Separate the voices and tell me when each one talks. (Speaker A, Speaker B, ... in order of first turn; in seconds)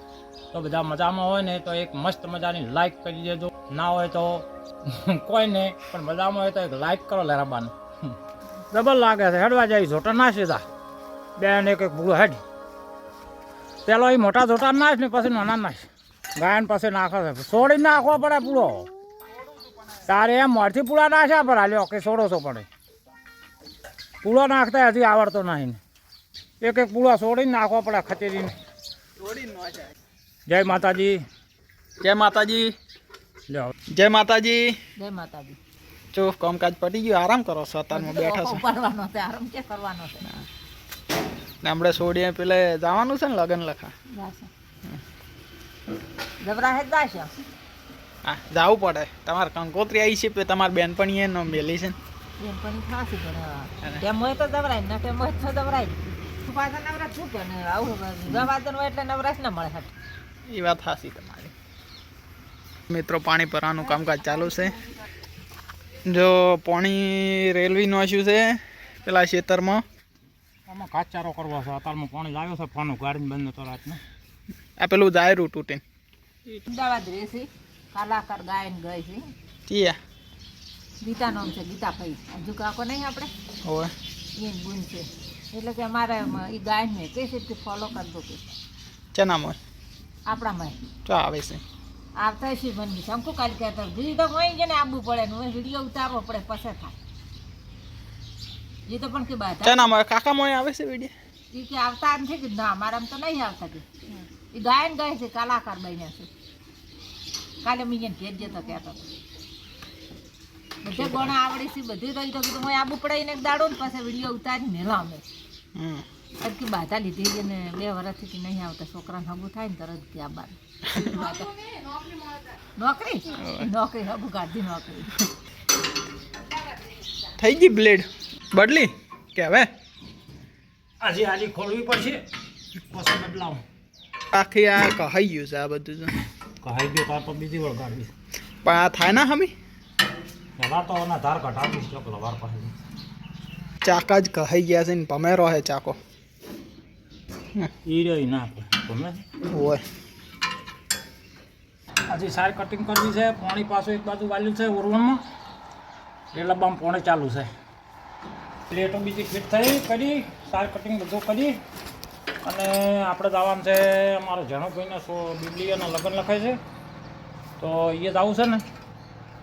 Speaker A: 0.5-8.1, 8.7-10.6, 11.4-12.4, 13.8-18.9, 20.1-22.7, 24.2-25.8, 26.6-28.6, 30.5-31.2, 33.5-33.7, 70.7-74.0, 131.0-132.2, 132.9-133.6, 136.6-138.1, 140.6-142.7, 147.8-149.2, 152.1-155.2, 156.3-157.5, 158.7-161.6, 162.4-166.6, 167.6-168.6
Speaker B: 29.2-29.9, 32.0-32.7, 33.9-34.7, 36.1-38.6, 41.6-43.9, 48.2-52.0, 60.5-61.5, 62.9-64.8, 66.0-69.8, 74.8-75.8, 79.7-80.0, 83.6-83.9, 89.1-89.6, 91.0-91.6, 99.6-101.1, 111.0-111.3, 115.7-116.0, 127.4-129.7, 134.3-136.1, 138.6-139.5, 143.8-146.0, 149.5-149.8
Speaker C: 35.0-35.6, 37.9-40.2, 44.1-44.5, 46.4-47.3, 52.4-59.9, 76.5-79.3, 81.0-83.3, 84.3-88.5, 90.3-90.8, 92.2-97.0, 98.9-99.9, 101.5-103.8, 104.5-106.3, 107.6-109.1, 110.8-115.2, 116.4-125.2